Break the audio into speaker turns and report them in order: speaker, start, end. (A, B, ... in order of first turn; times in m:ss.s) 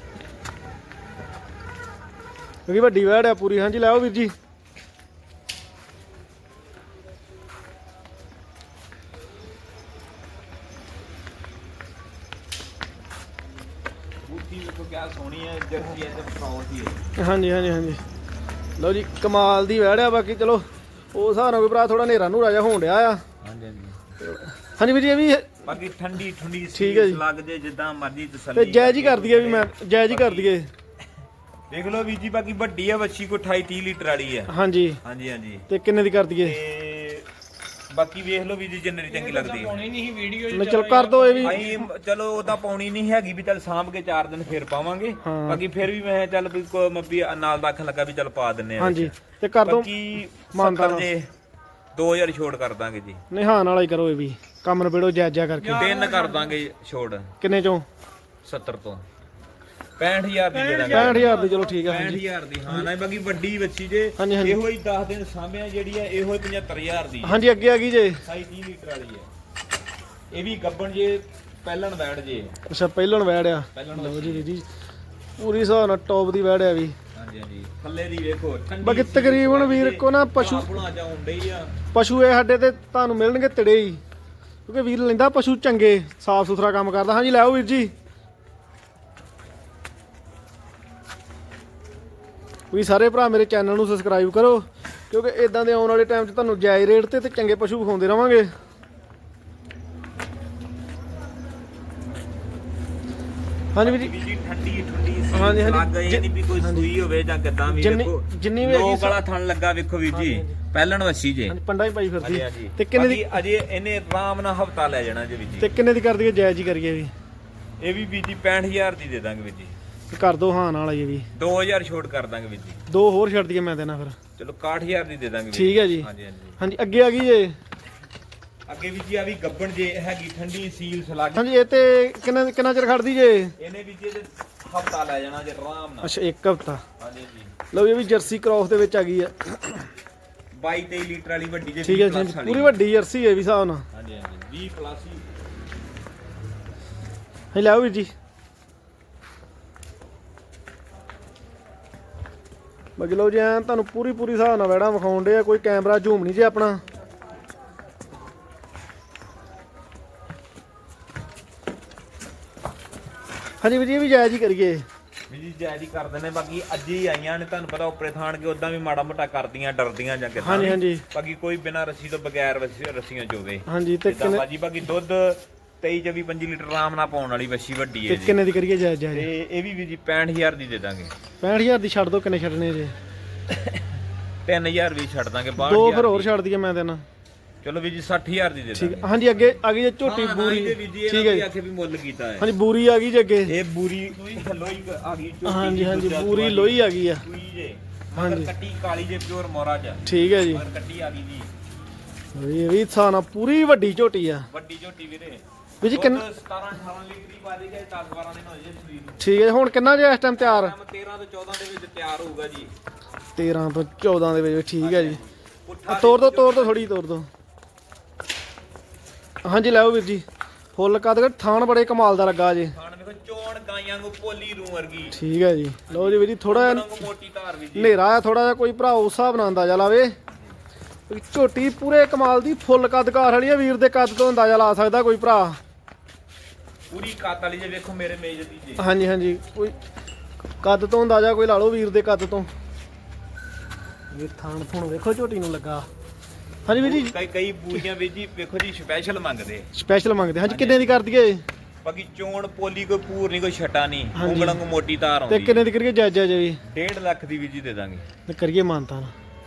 0:02.7-0:04.3 A
0:14.2-0:17.0 B
0:17.2-0:18.0 A
0:18.8-0:23.2 A
0:23.4-0:24.0 B
0:24.2-0:25.6 A
0:25.6-0:30.5 B
0:26.7-0:27.2 A
0:28.5-0:30.7 A
0:31.7-0:34.5 B
0:34.5-0:35.0 A
0:35.0-0:35.7 B
0:35.7-0:36.6 A
0:36.4-0:37.2 B
0:37.9-0:39.8 B
0:39.1-0:41.8 C
0:40.5-0:41.8 A
0:41.4-0:49.1 B
0:45.2-0:45.6 A
0:48.8-0:49.9 A
0:49.6-0:51.3 B
0:50.5-0:51.1 A
0:51.9-0:53.2 B
0:53.3-0:55.9 A
0:55.6-0:56.5 C
0:55.7-0:57.3 B
0:57.4-0:57.8 A
0:58.4-0:59.0 B
1:00.0-1:07.4 B
1:00.5-1:01.8 C
1:00.9-1:02.9 A
1:04.2-1:04.6 A
1:07.2-1:08.2 A
1:08.2-1:09.3 B
1:10.3-1:12.6 B
1:12.7-1:14.6 A
1:13.7-1:14.5 B
1:15.4-1:17.0 A
1:17.1-1:21.7 B
1:18.8-1:20.7 A
1:21.9-1:24.0 A
1:24.6-1:27.9 A
1:32.7-1:38.5 A
1:43.8-1:44.1 A
1:43.8-1:51.6 B
1:45.3-1:46.9 A
1:47.7-1:49.2 A
1:50.1-1:50.6 A
1:51.5-1:53.4 A
1:52.2-1:55.7 B
1:55.6-1:57.1 A
1:57.8-1:59.7 B
2:00.1-2:01.2 A
2:01.3-2:02.8 B
2:02.9-2:04.2 A
2:04.4-2:06.6 B
2:05.5-2:06.1 A
2:06.6-2:07.5 A
2:08.7-2:11.5 B
2:11.4-2:13.5 A
2:13.6-2:16.1 B
2:16.0-2:16.8 A
2:17.0-2:17.5 B
2:17.7-2:19.9 A
2:20.5-2:22.8 B
2:21.8-2:23.8 A
2:23.9-2:25.2 B
2:27.5-2:28.1 A
2:33.0-2:36.8 A
2:43.6-2:44.8 A
2:45.3-2:58.5 B
2:50.4-2:51.0 A
2:53.7-2:54.4 A
2:58.1-2:59.3 A
2:59.1-3:01.1 B
3:01.4-3:02.9 A
3:03.5-3:03.8 B
3:04.4-3:06.3 B
3:05.6-3:07.0 A
3:07.6-3:09.2 B
3:08.7-3:11.4 A
3:10.0-3:12.5 B
3:12.4-3:13.5 A
3:13.4-3:21.5 B
3:15.4-3:17.2 A
3:18.2-3:18.5 A
3:20.0-3:20.6 A
3:22.3-3:24.5 A
3:24.5-3:29.3 B
3:25.8-3:26.2 A
3:29.2-3:30.7 A
3:30.4-3:32.7 B
3:33.3-3:35.2 A
3:34.8-3:36.9 B
3:35.9-3:37.3 A
3:39.4-3:40.2 A
3:40.8-3:42.7 A
3:42.7-3:45.2 B
3:45.1-3:47.0 A
3:45.9-3:48.0 B
3:47.8-3:50.1 A
3:51.1-3:55.6 A
3:56.9-3:59.0 B
3:58.8-3:59.7 A
4:00.6-4:02.5 A
4:04.1-4:05.9 A
4:06.6-4:07.1 A
4:06.7-4:09.7 B
4:09.7-4:11.4 A
4:10.4-4:11.0 B
4:11.8-4:15.7 B
4:14.2-4:14.6 A
4:15.3-4:16.6 A
4:16.6-4:18.0 B
4:18.3-4:19.1 A